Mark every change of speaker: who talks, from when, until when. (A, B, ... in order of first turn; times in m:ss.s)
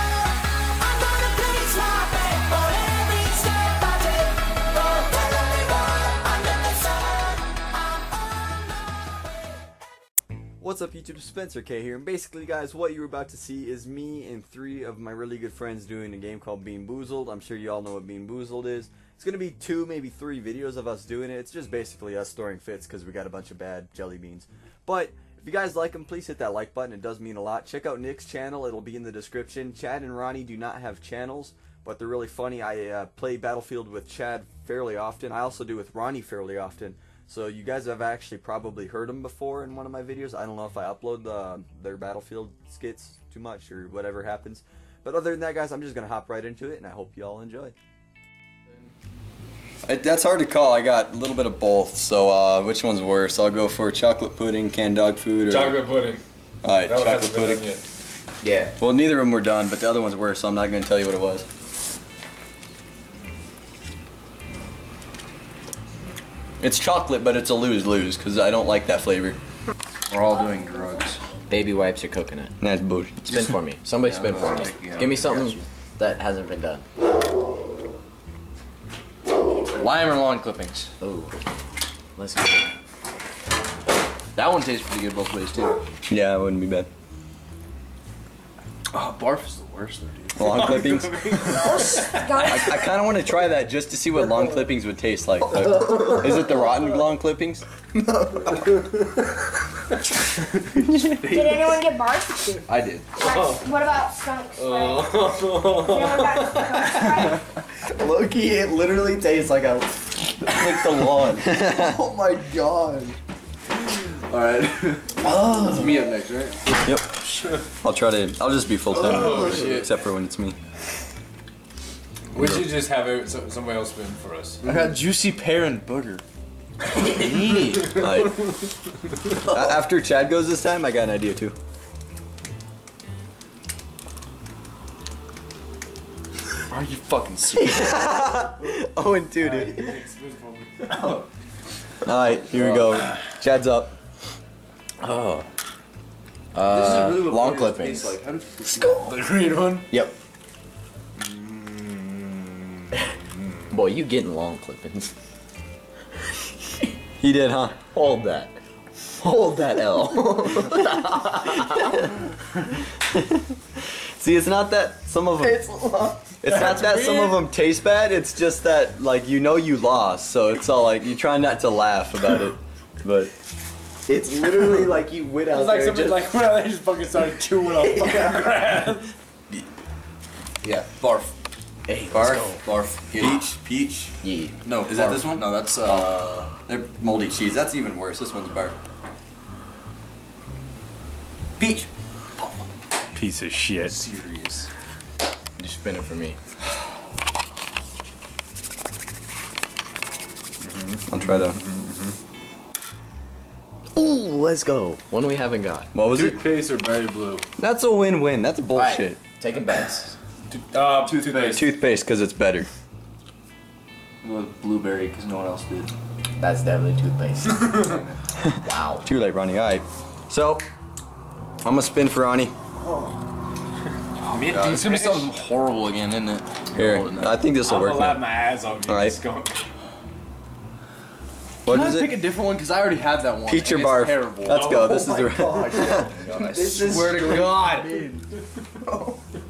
0:00.9-0:07.3 A
0:10.6-0:47.7 B
0:49.8-0:55.8 B
0:55.4-0:56.2 C
0:56.6-0:57.6 B
0:56.8-0:57.8 C
0:58.4-0:58.7 D
0:58.8-1:01.4 B
1:06.6-1:09.4 B
1:10.1-1:11.2 E
1:11.5-1:12.5 D
1:12.6-1:13.4 B
1:13.2-1:16.8 D
1:14.0-1:15.6 E
1:19.7-1:20.9 E
1:21.0-1:21.4 D
1:22.2-1:22.7 D
1:24.4-1:25.8 E
1:26.1-1:26.9 B
1:28.9-1:30.8 E
1:30.4-1:37.6 B
1:30.4-1:32.7 C
1:31.5-1:32.6 A
1:40.6-1:41.9 E
1:41.2-1:42.6 A
1:42.7-1:43.2 E
1:43.2-1:45.2 A
1:43.3-1:43.6 C
1:44.6-1:47.3 E
1:45.8-1:47.4 A
1:47.8-1:50.1 D
1:50.5-1:52.0 B
1:51.4-1:53.2 E
1:53.8-1:56.8 E
1:56.8-1:57.1 B
1:57.8-2:00.6 B
1:59.0-1:59.9 E
1:59.2-1:59.7 D
2:02.3-2:04.6 C
2:02.4-2:02.6 B
2:04.6-2:06.2 E
2:07.0-2:07.9 D
2:07.0-2:08.0 E
2:07.9-2:08.6 B
2:09.4-2:11.5 B
2:16.7-2:18.1 E
2:17.6-2:19.9 B
2:19.4-2:21.1 C
2:22.0-2:23.9 B
2:22.5-2:23.0 E
2:25.0-2:25.5 D
2:26.5-2:28.1 D
2:26.6-2:29.1 E
2:28.7-2:29.1 D
2:29.0-2:29.8 C
2:29.9-2:30.1 D
2:31.4-2:32.3 E
2:33.7-2:35.1 D
2:37.2-2:37.8 B
2:37.8-2:38.5 D
2:39.2-2:42.1 D
2:43.0-2:45.6 B
2:45.4-2:46.8 D
2:46.4-2:53.3 B
2:54.1-2:56.3 D
2:55.5-2:59.1 C
2:57.8-2:58.5 D
3:00.6-3:01.3 E
3:01.9-3:02.6 D
3:02.1-3:02.5 B
3:02.1-3:03.4 E
3:03.1-3:04.1 B
3:04.2-3:04.6 D
3:04.6-3:06.2 E
3:04.8-3:08.8 B
3:13.1-3:14.0 C
3:13.8-3:14.7 E
3:15.6-3:16.4 D
3:21.1-3:21.6 B
3:23.9-3:25.9 D
3:25.9-3:26.4 B
3:26.1-3:27.4 E
3:27.6-3:29.2 B
3:28.7-3:30.2 D
3:30.5-3:31.6 C
3:30.8-3:31.6 E
3:31.4-3:32.7 B
3:34.2-3:35.9 E
3:36.4-3:38.0 D
3:37.8-3:38.1 E
3:38.4-3:40.6 B
3:38.6-3:39.0 D
3:41.6-3:42.5 B
3:44.2-3:45.3 C
3:44.4-3:47.4 E
3:46.7-3:48.2 B
3:47.6-3:49.6 C
3:48.8-3:49.2 B
3:51.6-3:52.2 B
3:51.6-3:55.0 E
3:53.5-3:56.1 B
3:54.5-3:55.0 C
3:54.6-3:58.2 D
3:55.6-3:58.1 E
3:58.8-3:59.2 D